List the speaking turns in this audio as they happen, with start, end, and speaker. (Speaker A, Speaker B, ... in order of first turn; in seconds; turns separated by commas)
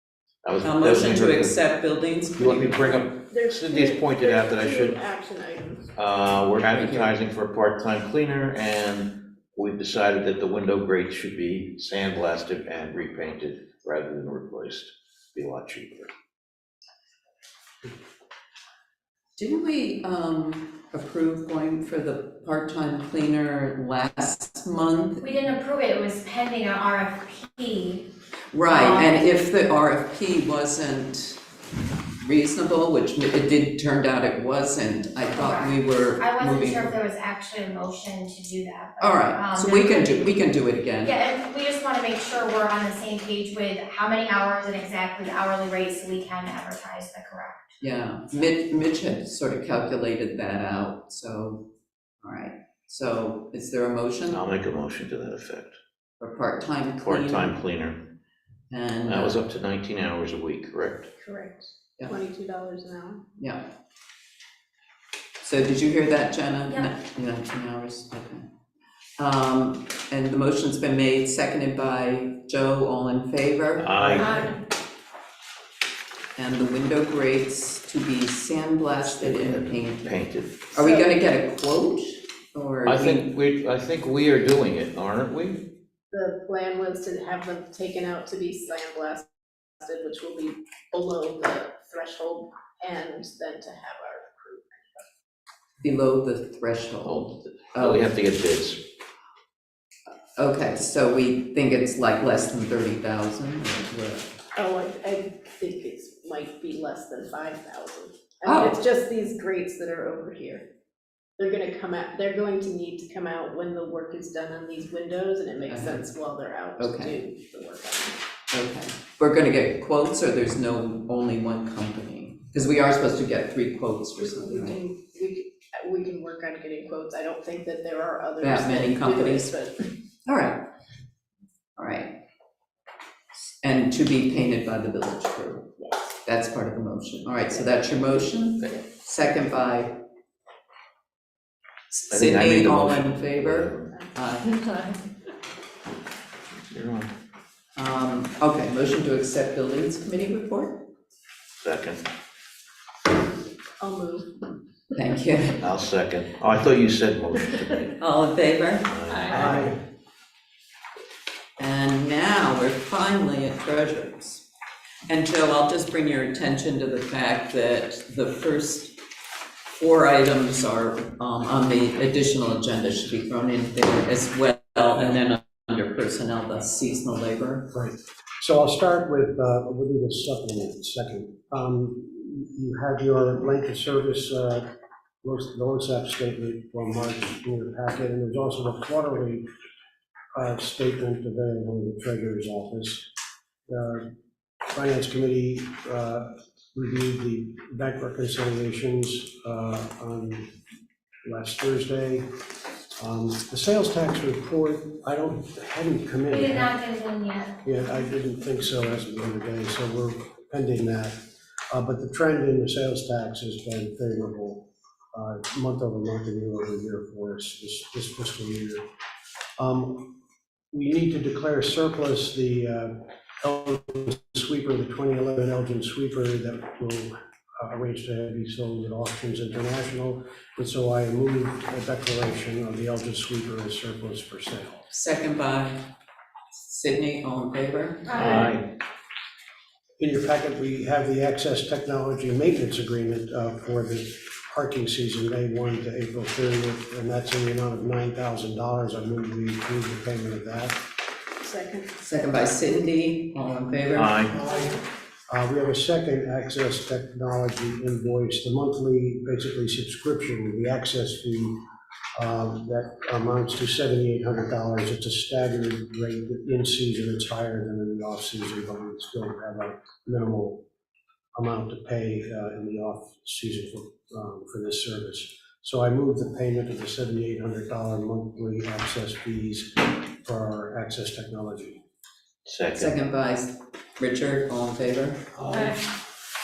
Speaker A: 0.4-1.6, Speaker B: 0.6-2.9, Speaker A: 2.4-5.0, Speaker C: 3.3-5.9, Speaker A: 6.0-16.1, Speaker B: 6.6-7.2, Speaker B: 19.4-25.3, Speaker D: 25.2-28.1, Speaker B: 28.5-31.4, Speaker D: 28.7-29.2, Speaker B: 32.2-37.0, Speaker D: 35.2-40.2, Speaker B: 39.0-41.2, Speaker D: 41.0-47.7, Speaker B: 47.8-51.6, Speaker B: 52.2-54.4, Speaker A: 54.3-55.8, Speaker B: 56.2-57.6, Speaker A: 57.0-58.1, Speaker B: 58.7-59.4, Speaker A: 59.1-61.1, Speaker C: 61.2-63.2, Speaker B: 63.4-63.6, Speaker B: 65.4-68.5, Speaker B: 69.2-74.4, Speaker A: 73.8-74.5, Speaker D: 74.2-74.6, Speaker B: 76.4-83.3, Speaker A: 79.1-80.7, Speaker A: 82.8-85.7, Speaker C: 86.1-89.3, Speaker C: 89.8-95.1, Speaker B: 95.8-98.2, Speaker A: 97.1-98.9, Speaker B: 100.4-104.3, Speaker C: 104.5-110.7, Speaker B: 108.5-108.8, Speaker C: 111.4-118.2, Speaker B: 115.7-116.1, Speaker B: 116.8-117.2, Speaker B: 118.5-124.8, Speaker C: 124.2-129.9, Speaker B: 128.4-129.5, Speaker B: 130.3-130.6, Speaker B: 131.8-132.1, Speaker B: 133.6-135.7, Speaker B: 136.2-140.0, Speaker B: 141.9-144.9, Speaker A: 142.1-143.9, Speaker A: 146.7-147.1, Speaker B: 147.8-150.8, Speaker A: 151.6-152.0, Speaker C: 153.8-154.4, Speaker B: 154.9-155.6, Speaker A: 155.6-158.0, Speaker B: 157.9-158.9, Speaker A: 158.9-159.8, Speaker E: 159.3-159.8, Speaker B: 161.6-164.5, Speaker B: 165.1-169.0, Speaker B: 169.7-177.7, Speaker E: 177.7-184.7, Speaker E: 185.2-189.5, Speaker E: 190.3-193.1, Speaker E: 193.7-194.1, Speaker E: 194.7-200.5, Speaker E: 201.2-202.3, Speaker E: 203.0-206.7, Speaker D: 206.3-207.6, Speaker E: 207.6-218.8, Speaker E: 219.6-220.2, Speaker E: 220.7-234.8, Speaker B: 234.9-235.9, Speaker B: 236.5-238.5, Speaker A: 238.1-238.7, Speaker E: 240.0-250.8, Speaker C: 251.4-252.0, Speaker B: 252.0-254.4, Speaker A: 253.9-254.4, Speaker E: 254.3-254.8, Speaker E: 255.3-261.6, Speaker E: 262.2-270.6, Speaker E: 271.4-281.8, Speaker A: 282.5-283.0, Speaker B: 282.7-285.2, Speaker E: 285.4-285.9